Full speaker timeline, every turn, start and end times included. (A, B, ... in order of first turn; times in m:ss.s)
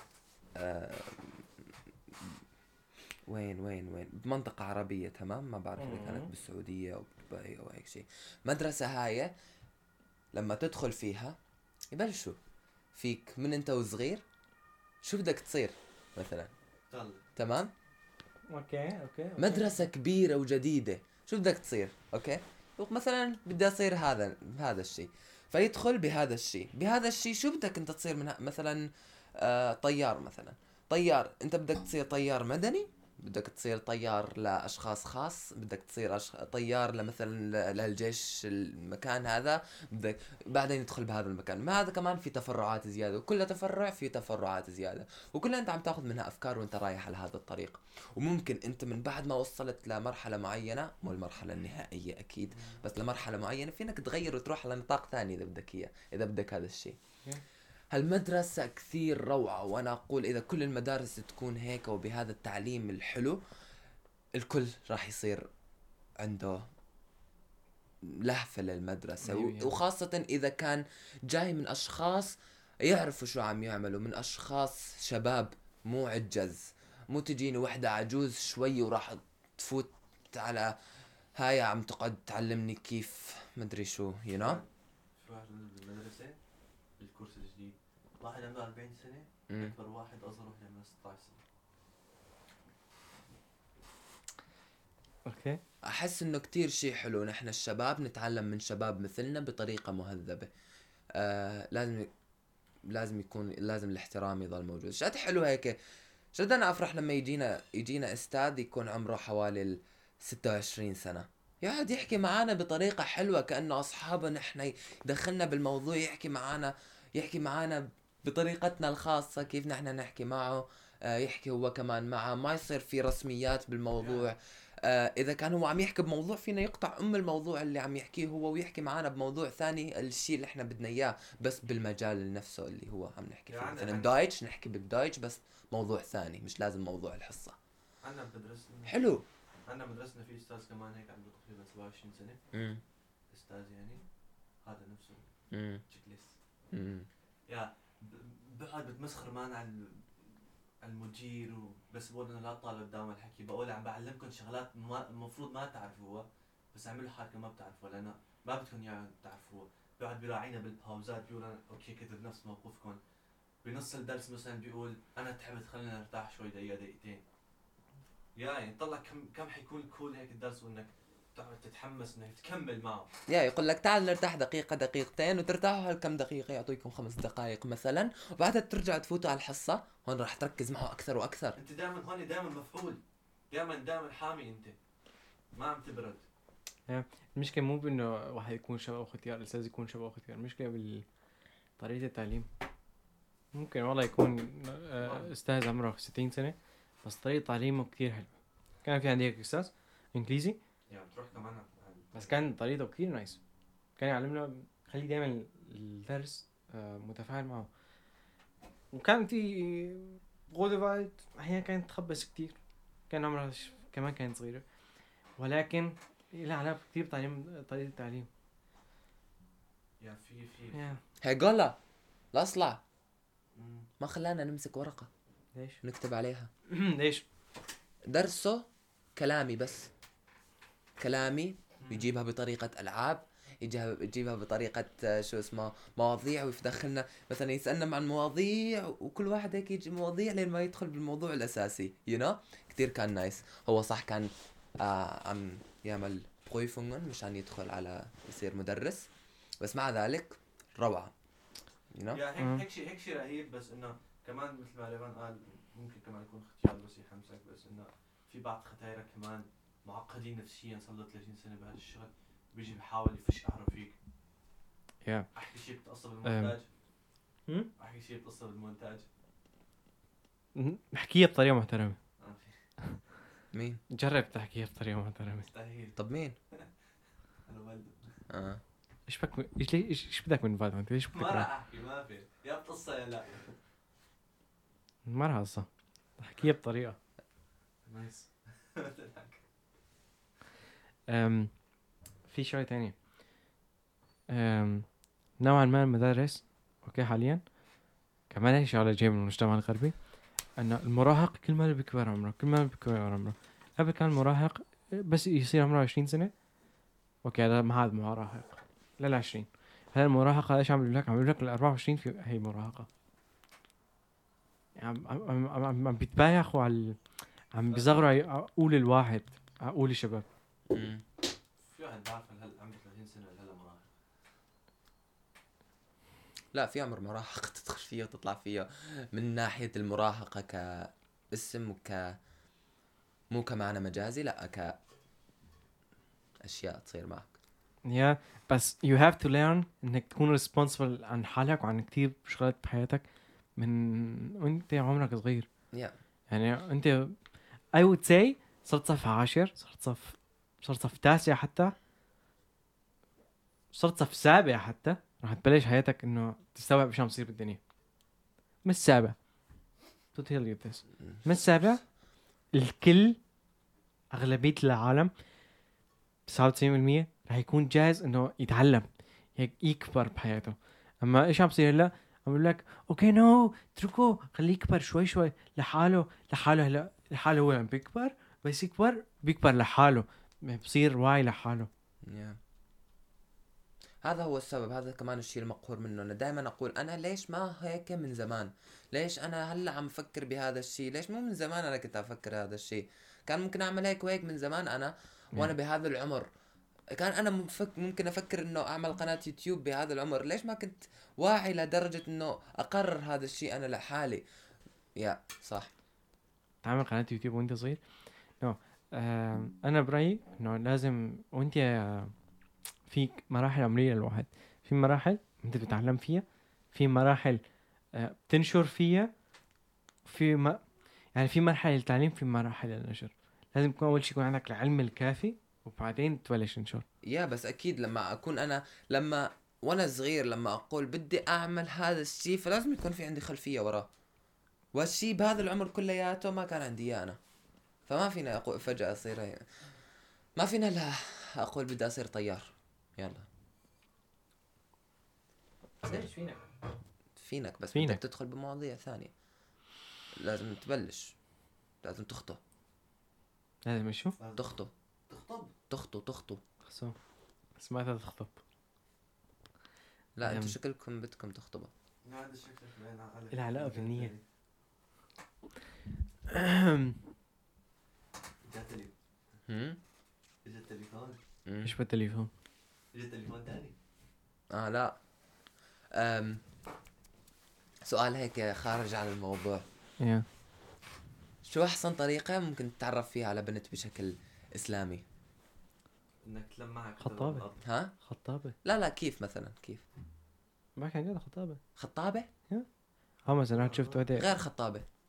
0:00.6-0:01.5 A
0:03.3-0:09.3 A
0:05.8-0:06.3 B
0:10.3-0:11.4 A
0:11.9-0:12.4 A
0:12.9-0:14.2 A
0:15.0-0:16.5 A
0:16.9-0:17.2 C
0:17.4-0:17.7 A
0:18.5-0:19.7 B
0:19.4-0:28.9 A
0:29.4-0:57.0 A
0:52.5-0:52.8 C
0:57.9-1:03.4 A
1:04.3-1:05.5 A
1:06.2-1:06.6 A
1:08.0-1:20.8 A
1:09.2-1:09.8 B
1:21.4-1:24.6 A
1:24.4-1:24.7 C
1:25.2-1:26.4 C
1:27.0-1:31.4 C
1:29.5-1:29.7 A
1:35.2-1:35.6 B
1:35.8-1:40.5 A
1:41.1-1:42.1 A
1:42.9-1:45.8 A
1:46.3-2:17.6 A
2:04.0-2:04.3 C
2:13.5-2:14.1 C
2:18.0-2:19.1 C
2:18.9-2:19.2 A
2:19.7-2:22.4 C
2:22.5-2:22.8 A
2:23.3-2:24.0 C
2:24.6-2:25.2 C
2:25.5-2:25.8 A
2:25.9-2:26.4 C
2:26.7-2:27.1 A
2:27.5-2:30.1 C
2:30.8-2:43.0 C
2:43.6-2:47.2 C
2:48.4-2:53.1 C
2:53.3-3:01.6 A
3:01.6-3:03.0 C
3:03.5-3:04.8 C
3:05.5-3:06.2 C
3:06.9-3:11.0 B
3:11.8-3:12.5 B
3:13.5-3:18.3 B
3:15.0-3:15.3 C
3:18.8-3:20.6 B
3:20.9-3:22.3 C
3:22.1-3:23.4 B
3:24.0-3:27.7 B
3:28.9-3:32.6 B
3:33.1-3:34.6 B
3:35.4-3:38.3 B
3:40.0-3:40.9 C
3:40.7-3:41.0 B
3:41.2-3:41.8 A
3:42.3-3:42.8 A
3:43.5-3:43.9 C
3:44.0-3:45.1 A
3:45.5-3:45.8 B
3:45.8-3:46.5 A
3:46.7-3:47.2 B
3:48.1-3:49.9 A
3:51.0-4:09.1 A
3:51.8-3:52.1 C
4:09.6-4:11.1 A
4:11.9-4:12.2 A
4:12.1-4:24.0 C
4:12.4-4:12.6 B
4:25.0-4:25.3 B
4:25.3-4:26.7 C
4:26.2-4:26.6 B
4:27.8-4:29.1 C
4:30.5-4:32.0 B
4:32.2-4:32.6 C
4:33.5-4:33.8 A
4:33.9-4:35.5 B
4:35.4-4:36.0 C
4:36.0-4:36.4 A
4:37.4-4:38.2 C
4:38.3-4:38.6 A
4:39.1-4:41.5 B
4:41.1-4:43.5 C
4:45.0-4:47.0 B
4:47.8-4:49.4 C
4:51.1-4:51.5 B
4:52.3-4:52.9 B
4:54.3-4:54.8 B
4:55.4-4:57.4 B
4:58.3-4:59.9 B
5:00.6-5:06.3 B
5:07.2-5:12.9 B
5:14.8-5:17.0 B
5:17.5-5:20.2 B
5:17.7-5:18.0 C
5:20.7-5:21.0 A
5:21.7-5:23.9 C
5:26.5-5:32.2 A
5:33.3-5:34.8 A
5:36.4-5:37.4 A
5:37.8-5:43.0 B
5:43.6-5:45.5 B
5:46.3-5:47.1 B
5:47.7-5:51.7 B
5:53.7-5:57.6 B
5:58.6-5:59.2 B
6:00.1-6:01.8 B
6:02.5-6:03.2 B
6:04.1-6:05.1 B
6:06.3-6:21.7 B
6:22.0-6:22.4 A
6:24.0-6:36.3 A
6:36.9-6:44.2 A
6:45.0-6:45.7 A
6:46.6-6:47.8 B
6:48.4-6:52.1 B
6:52.9-6:57.4 B
6:57.9-6:59.1 B
7:00.0-7:00.6 B
7:01.1-7:06.8 B
7:07.0-7:13.9 A
7:14.7-7:17.2 A
7:17.9-7:19.4 A
7:20.4-7:23.2 A
7:26.0-7:26.4 C
7:27.2-7:29.1 A
7:27.7-7:28.0 B
7:30.2-7:31.2 A
7:31.8-7:32.4 A
7:33.6-7:34.2 B
7:34.2-7:34.5 C
7:34.4-7:34.7 A
7:35.1-7:35.5 C
7:35.7-7:36.4 A
7:36.6-7:36.9 B
7:37.6-7:38.4 B
7:40.2-7:41.7 A
7:40.2-7:40.5 B
7:42.0-7:44.2 C
7:43.3-7:44.1 B
7:46.3-7:47.0 B
7:48.4-7:48.9 C
7:49.5-7:49.8 A
7:50.4-7:51.2 C
7:51.4-7:51.7 A
7:51.6-7:52.3 B
7:52.9-7:53.7 C
7:54.5-7:55.0 A
7:55.9-7:56.4 A
7:57.8-7:59.6 A
8:00.0-8:00.2 B
8:01.4-8:05.0 A
8:06.2-8:07.6 C
8:07.0-8:07.4 B
8:07.6-8:07.9 A
8:08.0-8:08.5 B
8:08.6-8:09.8 A
8:10.8-8:11.6 B
8:11.8-8:12.3 A
8:13.3-8:14.3 B
8:13.5-8:14.1 C
8:14.1-8:14.8 A